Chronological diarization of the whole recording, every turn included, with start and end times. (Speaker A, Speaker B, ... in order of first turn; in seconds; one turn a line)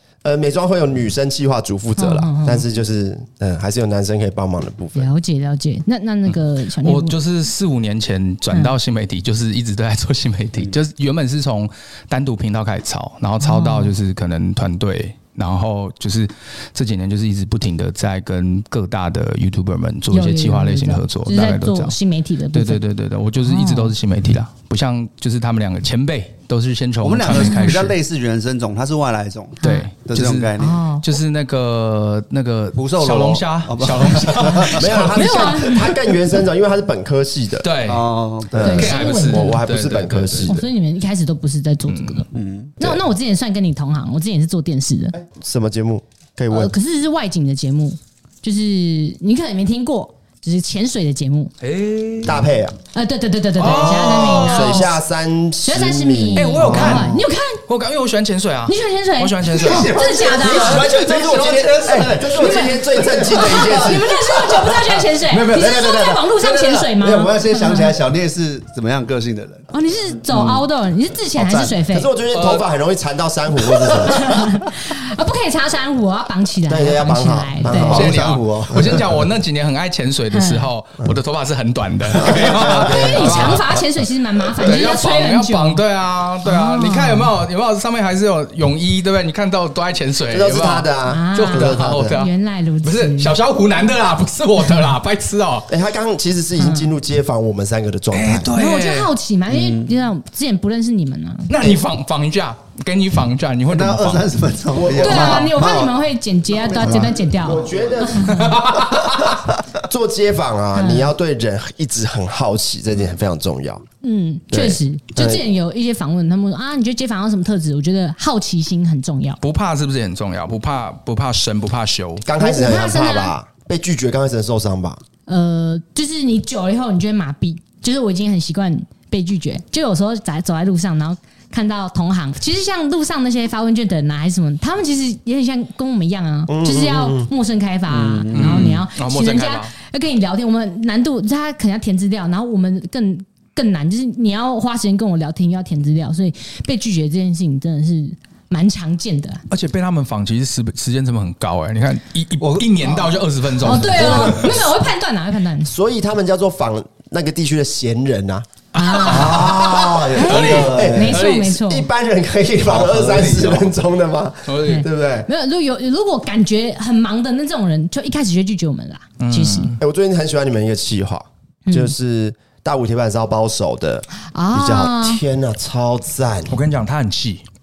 Speaker A: 0.2-5.1
Speaker B: 2.0-2.6
Speaker B: 4.9-7.2
Speaker C: 6.8-21.9
Speaker B: 13.4-13.9
Speaker B: 20.1-22.8
Speaker C: 22.5-27.9
Speaker B: 23.4-23.9
Speaker D: 27.0-30.8
Speaker B: 27.4-27.7
Speaker B: 29.6-29.9
Speaker C: 29.6-35.5
Speaker B: 30.6-31.0
Speaker D: 32.7-34.8
Speaker A: 34.7-37.7
Speaker B: 35.1-36.0
Speaker C: 37.6-40.6
Speaker D: 37.8-38.9
Speaker A: 38.5-40.6
Speaker B: 38.6-39.6
Speaker B: 40.4-42.3
Speaker C: 41.9-42.2
Speaker D: 42.3-42.8
Speaker B: 42.8-45.2
Speaker A: 45.2-46.7
Speaker B: 46.5-51.5
Speaker C: 51.6-52.5
Speaker A: 52.2-52.8
Speaker B: 52.9-54.9
Speaker C: 53.6-54.9
Speaker A: 53.6-57.2
Speaker B: 55.6-57.6
Speaker C: 56.3-60.0
Speaker B: 58.7-60.9
Speaker D: 59.6-69.7
Speaker A: 60.1-64.2
Speaker B: 62.3-68.0
Speaker B: 69.7-72.1
Speaker D: 70.3-70.6
Speaker D: 71.3-71.8
Speaker A: 71.9-74.5
Speaker C: 72.3-72.6
Speaker B: 73.7-78.0
Speaker A: 76.7-79.0
Speaker D: 77.7-79.0
Speaker C: 77.7-83.6
Speaker B: 80.3-80.7
Speaker A: 82.2-83.8
Speaker B: 82.7-85.8
Speaker C: 84.6-95.7
Speaker B: 86.4-87.3
Speaker A: 90.3-92.2
Speaker B: 91.1-93.3
Speaker A: 95.7-98.5
Speaker B: 96.6-96.9
Speaker C: 98.1-99.1
Speaker B: 98.5-101.5
Speaker D: 99.5-99.9
Speaker C: 101.5-104.3
Speaker D: 103.7-105.9
Speaker A: 104.8-105.5
Speaker B: 105.0-108.6
Speaker D: 106.6-107.9
Speaker A: 106.7-113.8
Speaker C: 108.3-109.3
Speaker B: 110.7-111.1
Speaker B: 114.0-119.4
Speaker A: 114.5-115.4
Speaker C: 119.4-122.2
Speaker A: 122.2-125.0
Speaker B: 122.4-123.3
Speaker B: 125.3-149.4
Speaker A: 136.5-137.3
Speaker D: 137.9-138.9
Speaker C: 138.3-139.7
Speaker C: 149.5-154.5
Speaker D: 152.4-153.1
Speaker B: 153.6-155.7
Speaker D: 153.8-154.2
Speaker A: 154.0-154.5
Speaker A: 155.7-158.5
Speaker B: 158.7-159.5
Speaker C: 158.7-161.6
Speaker A: 159.0-165.3
Speaker D: 159.1-161.1
Speaker B: 160.1-161.9
Speaker D: 162.6-163.7
Speaker C: 164.5-164.8
Speaker B: 164.6-169.7
Speaker C: 169.2-169.8
Speaker A: 169.8-176.5
Speaker B: 171.7-171.9
Speaker B: 174.3-175.2
Speaker C: 176.5-177.4